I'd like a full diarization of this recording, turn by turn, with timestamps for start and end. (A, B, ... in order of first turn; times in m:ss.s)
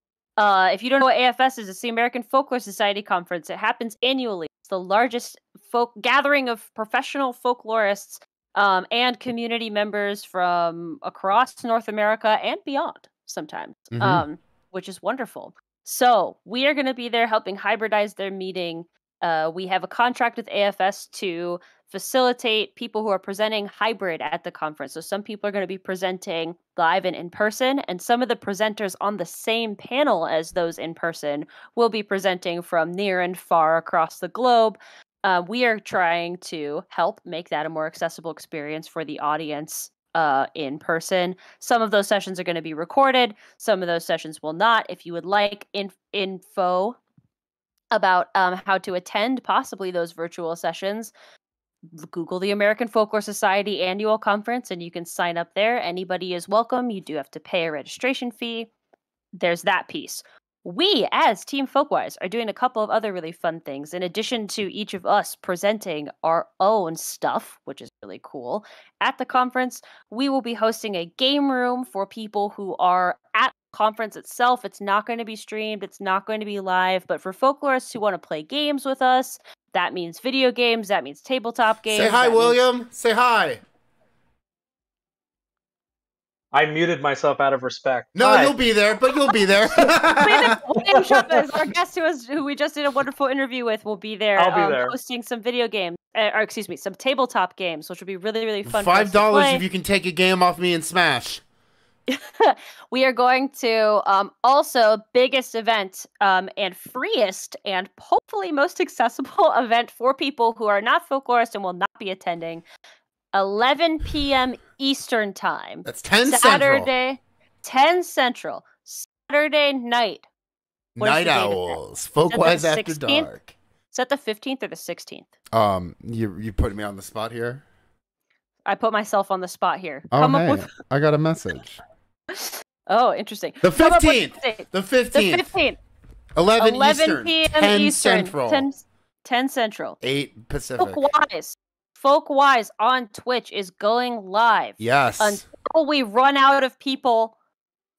0:00.4-0:47.0 A
0:13.9-0:14.2 B
0:47.9-0:51.1 A
0:51.9-0:58.7 A
0:59.4-1:22.6 A
1:21.9-1:23.6 B
1:26.5-1:28.6 C
1:28.1-1:30.5 B
1:30.1-1:39.6 A
1:30.9-1:31.5 C
1:34.4-1:35.0 C
1:38.6-1:41.4 B
1:42.1-1:52.6 A
1:53.3-2:00.2 A
1:55.8-1:56.9 B
2:01.0-2:03.5 B
2:01.0-2:01.8 A
2:02.3-2:05.3 A
2:05.5-2:07.6 B
2:08.6-2:10.7 A
2:10.1-2:11.8 B
2:12.3-2:15.8 A
2:13.6-2:15.5 B
2:16.4-2:18.6 B
2:16.6-2:20.0 A
2:20.0-2:21.0 B
2:20.8-2:27.3 A
2:24.8-2:25.4 B